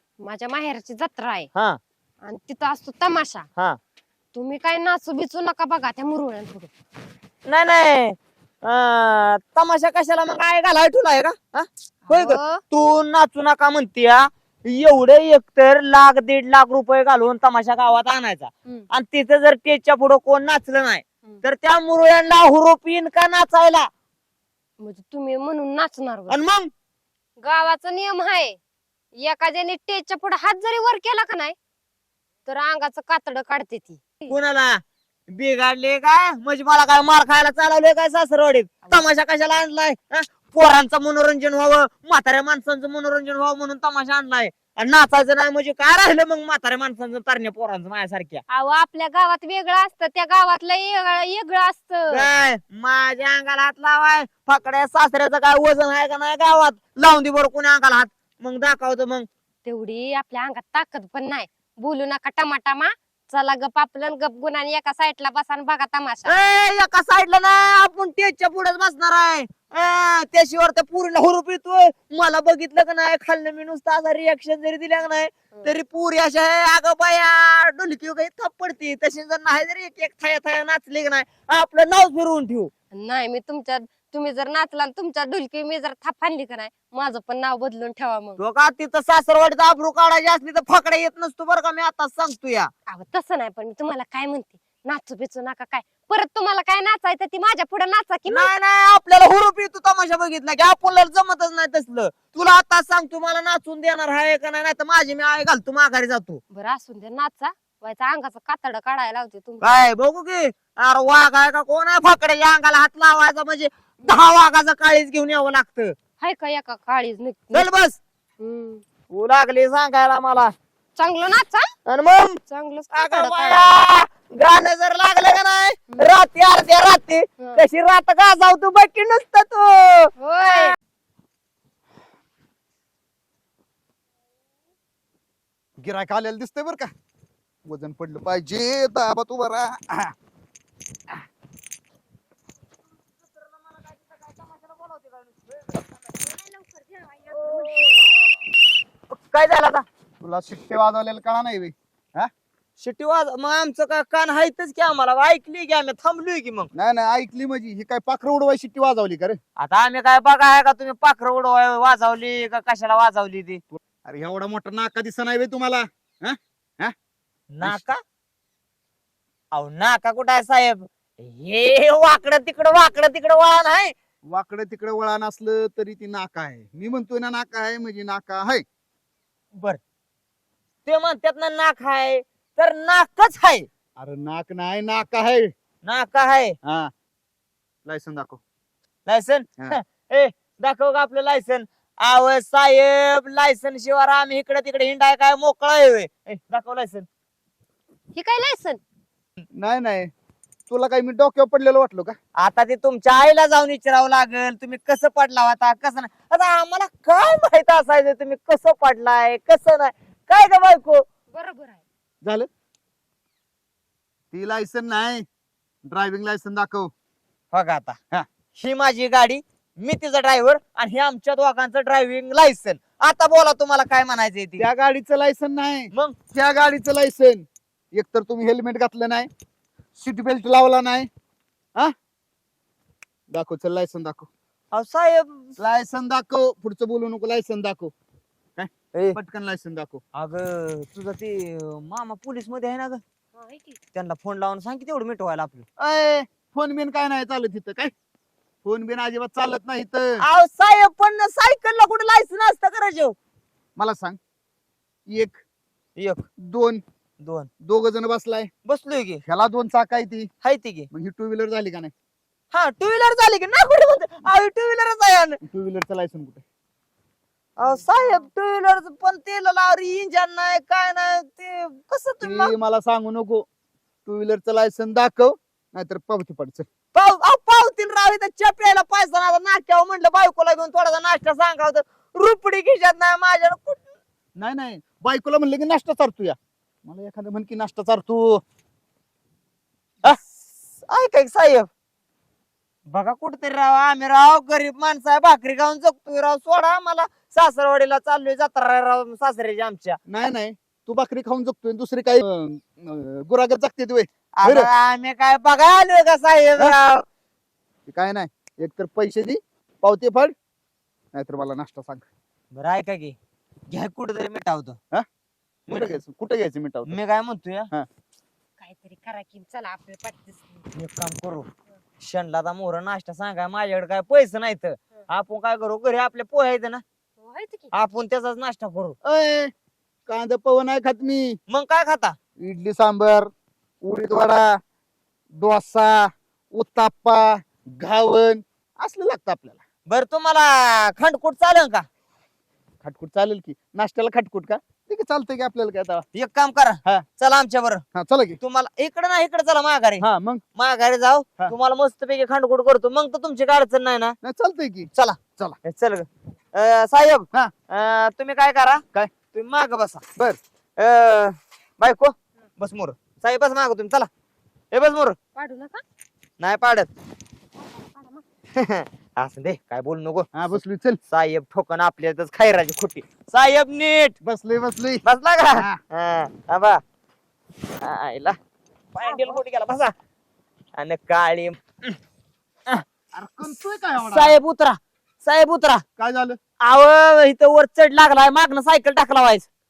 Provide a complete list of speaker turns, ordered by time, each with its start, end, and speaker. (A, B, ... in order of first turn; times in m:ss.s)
0:00.2-0:01.5 A
0:01.5-0:01.8 B
0:02.2-0:03.5 A
0:04.3-0:06.7 A
0:07.4-0:23.9 B
0:12.1-0:12.6 A
0:24.8-0:26.4 A
0:26.3-0:26.7 B
0:27.4-0:28.6 A
0:29.2-0:31.6 A
0:32.5-0:34.4 A
0:34.3-0:48.4 B
0:48.5-0:52.3 A
0:52.1-0:59.3 B
0:59.6-1:06.4 A
1:06.3-1:22.7 B
1:22.9-1:28.4 A
1:28.4-1:32.7 B
1:32.9-1:38.5 A
1:38.3-1:46.4 B
1:46.5-1:49.9 A
1:49.6-1:56.0 B
1:56.2-1:57.7 A
1:57.5-1:58.0 B
1:58.4-1:58.8 A
1:59.1-2:00.5 B
2:01.0-2:01.7 A
2:01.9-2:02.4 B
2:02.5-2:03.8 A
2:02.9-2:10.8 B
2:10.2-2:10.7 A
2:15.8-2:16.9 C
2:17.6-2:20.1 C
2:23.4-2:25.8 B
2:26.5-2:27.6 A
2:27.3-2:28.4 B
2:29.2-2:29.9 B
2:30.2-2:32.3 C
2:32.8-2:36.7 B
2:36.7-2:39.4 C
2:39.6-2:43.6 B
2:43.8-2:47.0 C
2:47.5-2:48.0 B
2:49.5-2:53.9 B
2:54.3-2:58.6 C
3:00.9-3:03.7 B
3:04.0-3:05.5 C
3:05.8-3:06.6 B
3:06.6-3:06.9 C
3:07.9-3:08.4 C
3:09.1-3:17.1 B
3:18.1-3:18.8 A
3:19.5-3:20.1 C
3:20.7-3:22.2 C
3:22.4-3:31.1 B
3:31.3-3:31.8 A
3:32.2-3:32.5 C
3:34.3-3:35.2 C
3:35.9-3:36.9 C
3:37.5-3:38.0 B
3:38.6-3:44.7 B
3:44.6-3:49.3 C
3:50.0-3:51.1 C
3:53.3-3:54.3 C
3:54.7-3:55.5 B
3:55.6-3:57.9 C
3:58.6-4:00.0 C
4:00.2-4:03.0 B
4:03.4-4:03.8 A
4:03.9-4:05.6 B
4:05.8-4:07.9 C
4:08.6-4:10.2 C
4:10.2-4:13.2 B
4:13.8-4:14.2 C
4:15.1-4:15.4 C
4:16.0-4:16.2 B
4:16.4-4:16.8 C
4:17.2-4:17.5 B
4:17.6-4:18.5 C
4:18.6-4:19.2 B
4:19.2-4:20.3 C
4:20.4-4:20.9 B
4:20.9-4:21.9 C
4:22.5-4:25.4 B
4:25.4-4:26.4 C
4:27.6-4:32.5 B
4:32.2-4:33.5 C
4:34.1-4:36.7 C
4:36.9-4:44.0 B
4:44.4-4:48.4 C
4:50.9-4:51.7 B
4:52.9-5:00.0 B
5:00.1-5:04.7 C
5:04.4-5:07.0 B
5:07.9-5:10.3 C
5:11.2-5:12.1 C
5:12.5-5:13.2 B
5:13.7-5:14.8 B
5:15.7-5:17.0 C
5:16.9-5:17.7 B
5:18.6-5:20.7 A
5:20.7-5:21.5 B
5:22.0-5:26.8 B
5:27.2-5:27.7 A
5:27.7-5:29.0 B
5:29.0-5:29.5 C
5:30.1-5:31.4 C
5:31.5-5:32.2 B
5:32.4-5:33.3 C
5:33.8-5:34.6 C
5:35.4-5:39.6 C
5:39.9-5:41.9 B
5:42.8-5:46.1 C
5:46.2-5:47.8 B
5:48.0-5:48.4 C
5:48.4-5:50.0 B
5:50.0-5:50.4 C
5:50.6-5:54.2 B
5:54.2-5:55.6 C
5:54.9-6:00.0 B
6:00.8-6:04.1 B
6:04.7-6:05.2 B
6:05.4-6:05.8 A
6:06.4-6:06.9 B
6:07.6-6:08.2 A
6:08.6-6:10.6 B
6:10.3-6:11.0 C
6:11.1-6:14.2 B
6:14.2-6:15.0 C
6:15.0-6:16.8 B
6:17.8-6:18.4 B
6:19.0-6:19.9 B
6:20.8-6:22.0 B
6:23.1-6:24.4 C
6:24.0-6:25.8 B
6:26.0-6:26.4 C
6:26.6-6:29.5 B